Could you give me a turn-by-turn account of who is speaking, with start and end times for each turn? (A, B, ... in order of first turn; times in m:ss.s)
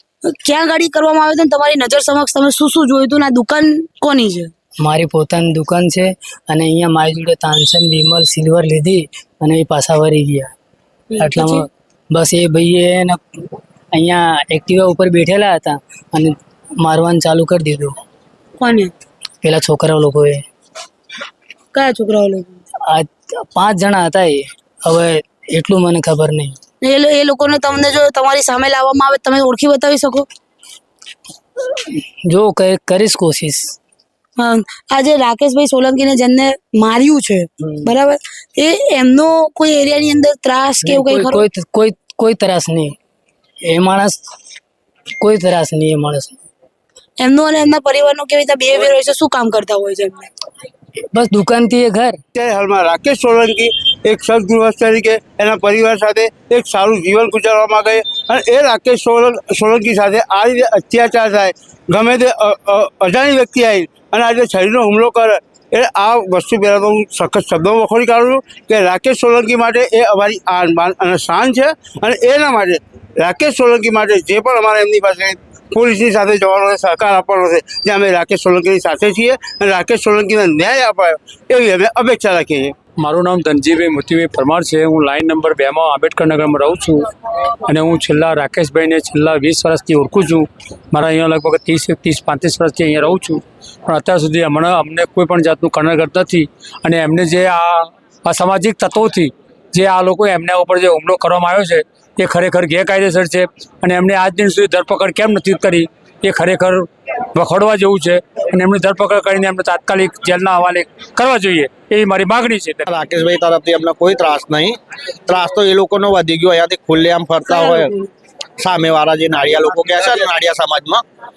0:00.4-0:04.5 A
0:04.8-0:10.5 B
0:11.1-0:11.6 A
0:11.2-0:13.2 B
0:13.9-0:17.9 B
0:18.6-0:18.9 A
0:19.4-0:20.4 B
0:21.7-0:22.6 A
0:22.9-0:26.6 B
0:26.8-0:30.3 A
0:31.9-0:33.8 B
0:34.4-0:41.5 A
0:37.6-0:37.9 B
0:40.8-0:43.0 B
0:43.7-0:44.2 B
0:45.2-0:46.5 B
0:47.2-0:50.3 A
0:51.1-0:52.2 B
0:52.4-1:22.7 C
1:23.0-1:27.1 D
1:27.7-1:52.8 D
1:52.9-1:57.9 E
1:57.5-1:58.1 A
1:58.6-2:01.0 E